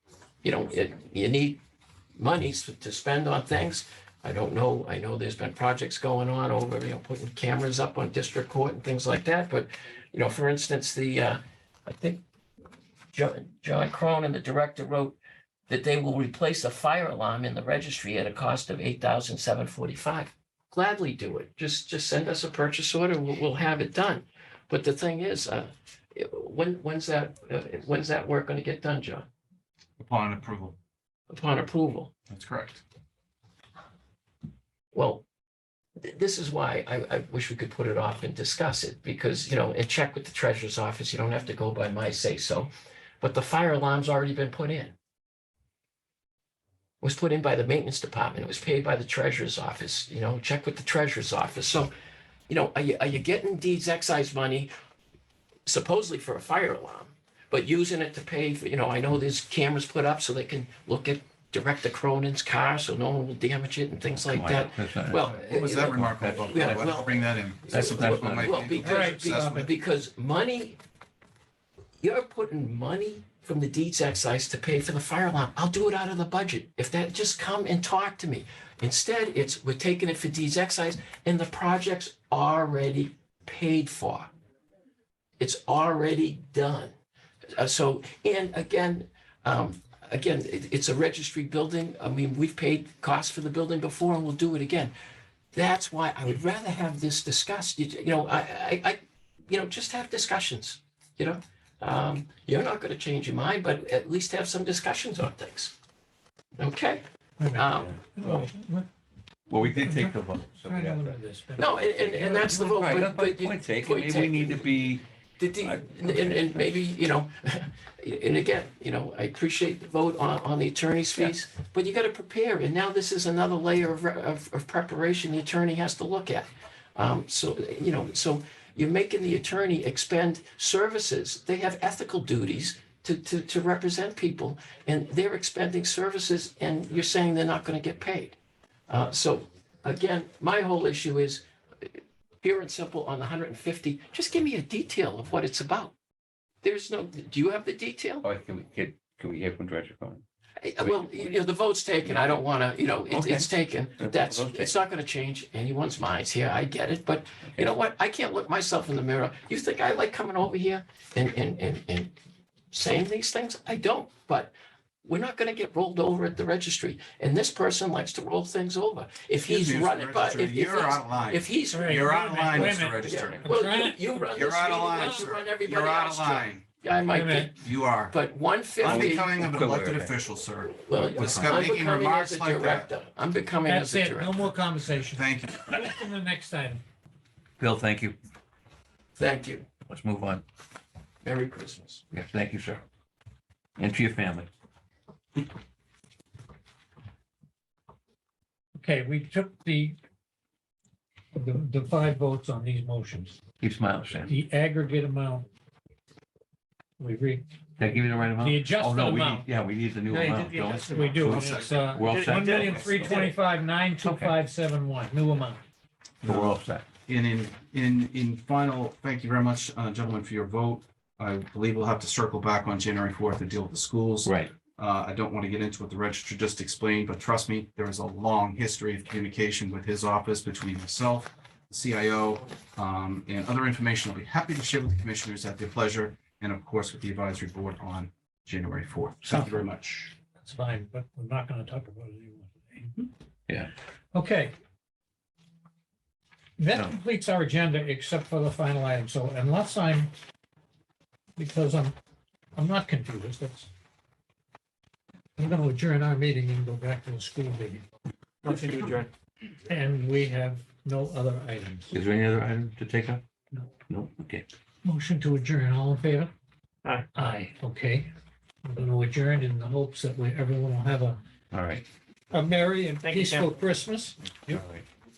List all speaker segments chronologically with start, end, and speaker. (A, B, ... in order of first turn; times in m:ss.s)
0:00.4-0:01.6 A
0:02.2-0:12.2 A
0:13.1-0:15.2 A
0:15.7-0:29.3 A
0:30.0-0:30.8 B
0:31.3-0:32.1 A
0:32.3-0:32.8 B
0:34.9-0:35.2 A
0:36.0-0:42.7 A
0:43.2-0:45.0 A
0:47.0-0:51.9 A
0:52.5-0:54.7 A
0:55.7-1:10.8 A
1:04.1-1:05.2 C
1:05.3-1:09.7 B
1:05.8-1:07.0 C
1:07.7-1:08.6 C
1:08.8-1:09.7 D
1:12.0-1:24.3 A
1:25.4-1:26.9 A
1:27.5-1:34.9 A
1:35.5-1:45.8 A
1:46.6-1:48.0 A
1:47.4-1:48.9 D
1:47.8-1:48.5 C
1:49.5-1:51.2 C
1:49.6-1:52.6 D
1:51.6-1:54.7 A
1:52.4-1:55.0 C
1:55.4-2:18.4 A
1:55.6-1:56.6 C
2:18.9-2:25.9 A
2:26.6-2:28.3 A
2:28.2-2:30.2 C
2:30.6-2:42.1 A
2:30.8-2:31.3 C
2:33.1-2:34.7 C
2:42.7-2:57.6 A
2:49.5-2:53.5 B
2:51.7-2:54.1 D
2:54.3-2:56.6 B
2:57.1-2:57.5 D
2:57.6-2:58.2 B
2:58.1-2:59.3 A
2:58.8-3:02.9 B
2:58.8-3:00.2 C
3:00.7-3:04.6 A
3:01.2-3:01.7 C
3:03.6-3:06.8 D
3:05.1-3:05.8 B
3:07.6-3:08.2 C
3:09.2-3:09.7 A
3:09.9-3:10.4 C
3:11.2-3:12.0 A
3:12.1-3:12.8 C
3:13.8-3:14.5 C
3:18.8-3:20.0 D
3:21.4-3:23.4 D
3:23.6-3:24.3 C
3:24.3-3:25.5 D
3:27.0-3:27.4 D
3:27.8-3:33.3 C
3:28.2-3:29.5 D
3:30.1-3:35.6 D
3:30.6-3:31.5 E
3:31.2-3:32.0 B
3:32.1-3:33.3 E
3:34.0-3:34.3 C
3:36.2-4:00.1 B
3:36.3-3:36.8 C
3:44.2-3:44.5 C
3:59.2-4:03.1 D
4:04.1-4:04.6 D
4:06.6-4:10.1 D
4:11.4-4:12.0 D
4:12.6-4:13.7 D
4:15.4-4:17.8 D
4:18.4-4:19.1 E
4:18.5-4:18.9 D
4:19.7-4:21.9 D
4:21.9-4:23.2 C
4:23.9-4:24.5 C
4:24.8-4:26.3 D
4:27.1-4:28.1 D
4:28.6-4:31.2 D
4:31.5-4:31.8 C
4:32.3-4:34.6 D
4:33.0-4:33.5 E
4:34.5-4:34.8 C